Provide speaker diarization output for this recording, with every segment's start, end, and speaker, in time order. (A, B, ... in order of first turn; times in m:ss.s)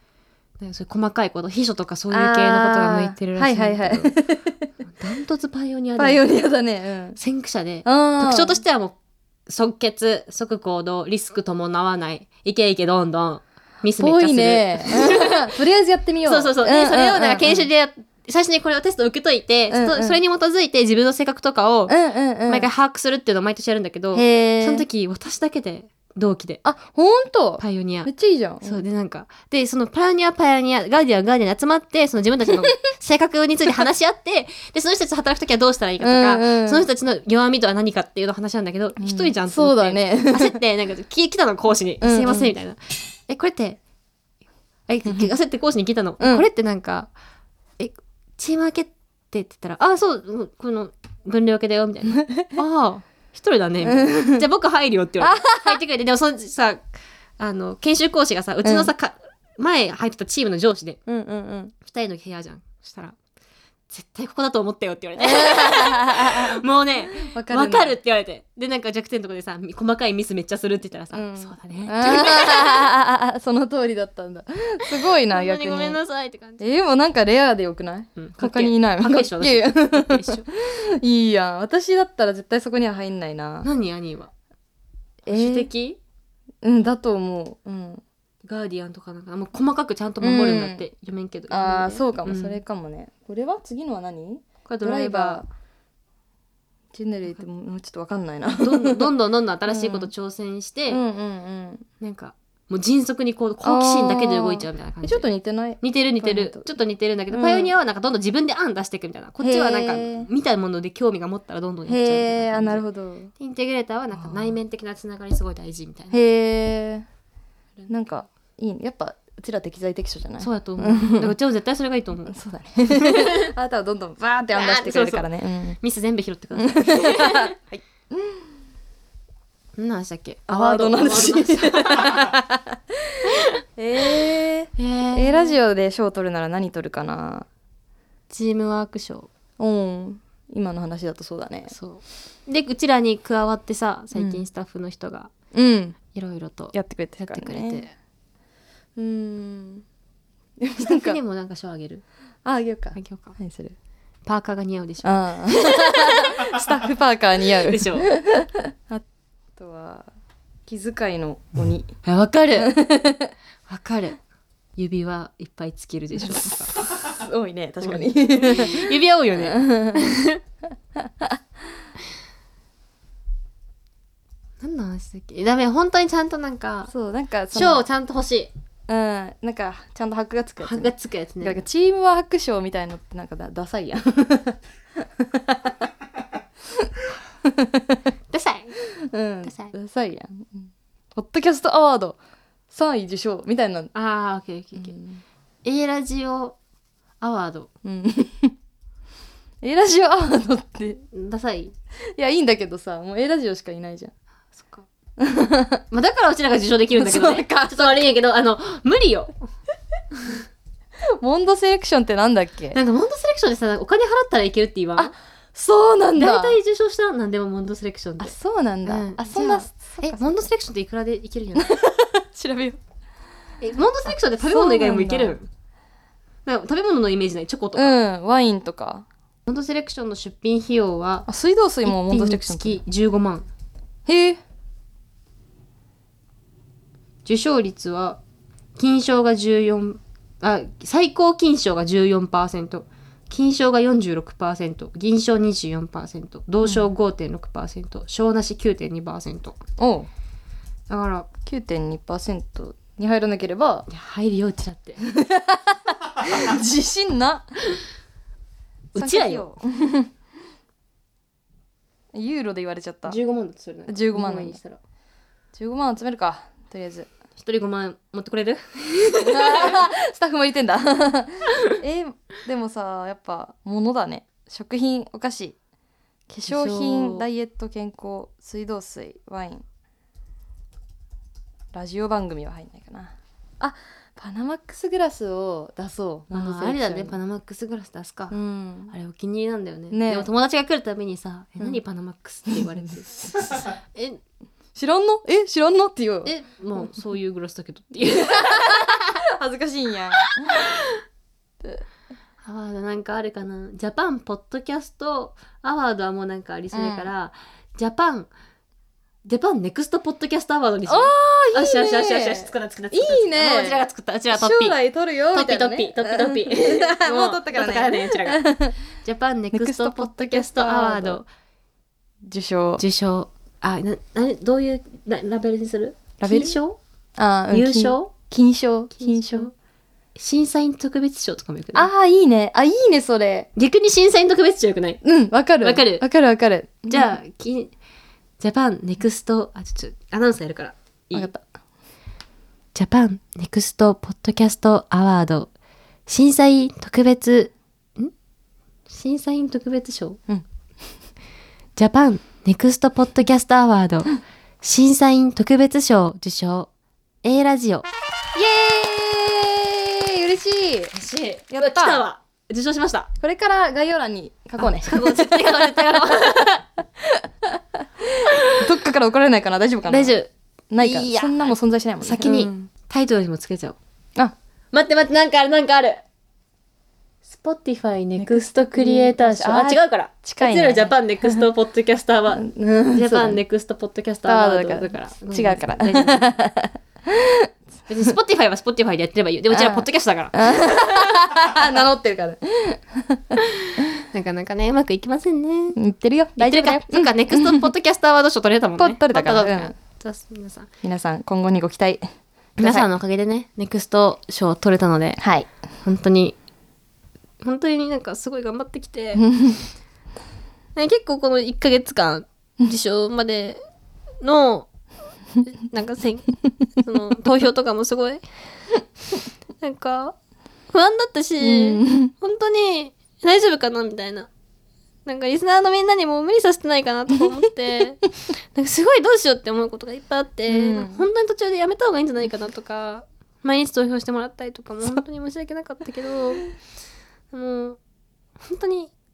0:00.6-0:04.2 A
0:02.1-0:04.7 B
0:04.8-0:06.2 A
0:06.0-0:07.2 B
0:07.2-0:15.5 A
0:07.8-0:08.6 B
0:14.0-0:17.7 B
0:16.3-0:22.0 A
0:19.7-0:20.2 B
0:21.9-0:22.7 B
0:22.5-0:26.6 A
0:24.1-0:24.9 B
0:26.6-0:28.8 B
0:27.6-0:28.1 A
0:28.6-0:43.8 A
0:36.0-0:36.9 B
0:39.0-0:40.6 B
0:42.0-0:42.5 B
0:44.9-0:47.1 A
0:45.1-0:45.3 B
0:46.2-0:46.4 B
0:47.8-0:56.8 A
0:52.2-0:52.5 B
0:53.8-0:54.5 B
0:55.2-0:55.8 B
0:57.4-1:01.0 A
0:58.6-0:58.9 B
1:01.1-1:01.8 B
1:01.8-1:03.2 A
1:03.9-1:12.9 A
1:05.2-1:08.0 B
1:11.1-1:16.0 B
1:15.3-1:16.6 A
1:16.6-1:23.7 B
1:18.2-1:20.5 A
1:23.6-1:24.3 A
1:25.3-1:25.7 B
1:25.3-1:26.0 A
1:26.6-1:28.0 B
1:28.4-1:32.6 A
1:30.2-1:30.8 B
1:31.5-1:35.5 B
1:34.6-1:35.4 A
1:36.9-1:39.1 B
1:38.5-1:41.0 A
1:39.7-1:40.1 B
1:40.9-1:41.8 B
1:42.0-1:45.3 A
1:43.6-1:46.6 B
1:45.8-1:52.8 A
1:47.3-1:47.7 B
1:49.4-1:50.3 B
1:51.9-1:53.3 B
1:53.4-1:56.2 A
1:54.1-1:54.6 B
1:56.1-1:57.1 B
1:57.9-2:01.4 B
2:00.4-2:02.4 A
2:02.3-2:05.8 B
2:02.9-2:03.5 A
2:04.6-2:05.3 A
2:05.8-2:07.5 A
2:06.6-2:08.5 B
2:09.8-2:12.3 A
2:10.5-2:12.8 B
2:13.8-2:17.5 B
2:14.8-2:15.6 A
2:18.3-2:19.3 A
2:19.6-2:21.7 B
2:21.7-2:25.3 A
2:24.1-2:24.4 B
2:25.5-2:26.0 B
2:26.1-2:27.9 A
2:26.7-2:27.8 B
2:29.0-2:29.8 B
2:30.6-2:31.2 B
2:30.8-2:32.0 A
2:32.4-2:33.8 B
2:33.0-2:33.3 A
2:34.2-2:36.3 A
2:35.0-2:39.0 B
2:37.7-2:38.1 A
2:39.6-2:40.1 B
2:40.7-2:42.0 B
2:42.0-2:42.7 A
2:42.6-2:43.3 B
2:43.7-2:44.2 A
2:44.8-2:46.8 A
2:46.3-2:50.1 B
2:47.8-2:50.4 A
2:51.0-2:51.4 B
2:54.6-2:56.9 A
2:56.9-2:57.8 B
2:57.5-2:58.5 A
2:58.9-3:05.8 B
3:00.6-3:01.6 A
3:07.4-3:08.0 B
3:08.3-3:08.8 A
3:09.0-3:12.2 B
3:09.4-3:09.7 A
3:12.7-3:13.9 B
3:13.9-3:14.9 A
3:14.8-3:15.2 B
3:15.6-3:16.6 A
3:17.2-3:17.7 A
3:17.8-3:18.5 B
3:19.6-3:21.0 B
3:21.1-3:21.7 A
3:22.2-3:24.1 B
3:24.6-3:24.9 A
3:25.2-3:25.8 B
3:25.9-3:29.3 A
3:27.0-3:28.1 B
3:30.2-3:30.4 A
3:31.2-3:32.8 B
3:32.7-3:35.1 A
3:35.0-3:36.6 B
3:36.2-3:38.3 A
3:38.2-3:40.4 B
3:38.9-3:41.8 A
3:41.6-3:42.8 B
3:43.6-3:45.5 A
3:44.1-3:45.4 B
3:46.5-3:48.0 A
3:47.8-3:49.1 B
3:49.5-3:51.3 A
3:51.3-3:52.8 B
3:51.8-3:53.5 A
3:54.1-3:54.4 B
3:57.2-3:58.2 A
3:58.8-4:09.6 A
4:06.6-4:06.9 B
4:09.8-4:10.1 B
4:10.9-4:11.3 A
4:11.5-4:13.9 B
4:13.9-4:15.0 A
4:15.0-4:17.5 B
4:18.9-4:19.5 A
4:19.0-4:20.1 B
4:22.1-4:23.2 B
4:23.1-4:24.8 A
4:23.9-4:24.6 B
4:25.6-4:27.1 B
4:27.4-4:29.8 A
4:29.2-4:35.6 B
4:36.3-4:39.6 B
4:36.5-4:37.3 A
4:41.7-4:47.2 B
4:46.3-4:48.4 A
4:48.3-4:49.0 B
4:48.9-4:54.2 A
4:49.9-4:50.3 B
4:52.5-4:53.6 B
4:54.8-4:56.3 B
4:56.2-4:59.2 A
4:58.3-5:00.7 B
5:00.2-5:00.9 A
5:02.4-5:08.3 A
5:06.7-5:07.1 B
5:09.2-5:14.8 A
5:10.9-5:18.8 B
5:15.3-5:21.3 A
5:19.5-5:21.2 B
5:22.2-5:22.8 B
5:22.8-5:26.8 A
5:26.2-5:26.6 B
5:27.2-5:29.5 B
5:27.5-5:28.1 A
5:29.0-5:29.5 A
5:30.2-5:31.9 A
5:31.8-5:33.5 B
5:33.6-5:35.0 A
5:35.0-5:37.2 B
5:35.6-5:36.0 A
5:36.9-5:37.7 A
5:38.4-5:41.3 A
5:41.1-5:41.4 B
5:42.8-5:45.5 A
5:46.1-5:48.1 A
5:48.9-5:50.2 A
5:51.8-5:56.7 A
5:57.2-5:57.9 A
5:58.4-6:00.9 B
6:00.9-6:03.1 A
6:01.5-6:02.1 B
6:03.2-6:06.0 B
6:04.6-6:06.6 A
6:07.0-6:10.2 B
6:09.9-6:13.8 A
6:10.7-6:12.7 B
6:14.7-6:16.0 A
6:17.3-6:26.2 A
6:18.2-6:21.5 B
6:22.3-6:23.4 B
6:24.2-6:27.5 B
6:27.9-6:31.3 A
6:29.5-6:33.3 B
6:33.6-6:35.8 A
6:35.8-6:37.7 B
6:36.4-6:40.7 A
6:38.8-6:39.7 B
6:40.8-6:42.1 B
6:42.6-6:42.9 B
6:42.6-6:45.2 A
6:45.2-6:45.5 B
6:45.8-6:46.4 A
6:47.4-6:49.3 A
6:49.2-6:49.6 B
6:50.8-6:53.6 A
6:54.2-6:54.7 A
6:55.4-6:58.3 A
6:59.6-7:00.2 A
7:00.7-7:04.3 A
7:01.4-7:02.1 B
7:05.0-7:16.5 A
7:10.5-7:11.1 B
7:17.3-7:17.8 A
7:18.4-7:18.9 A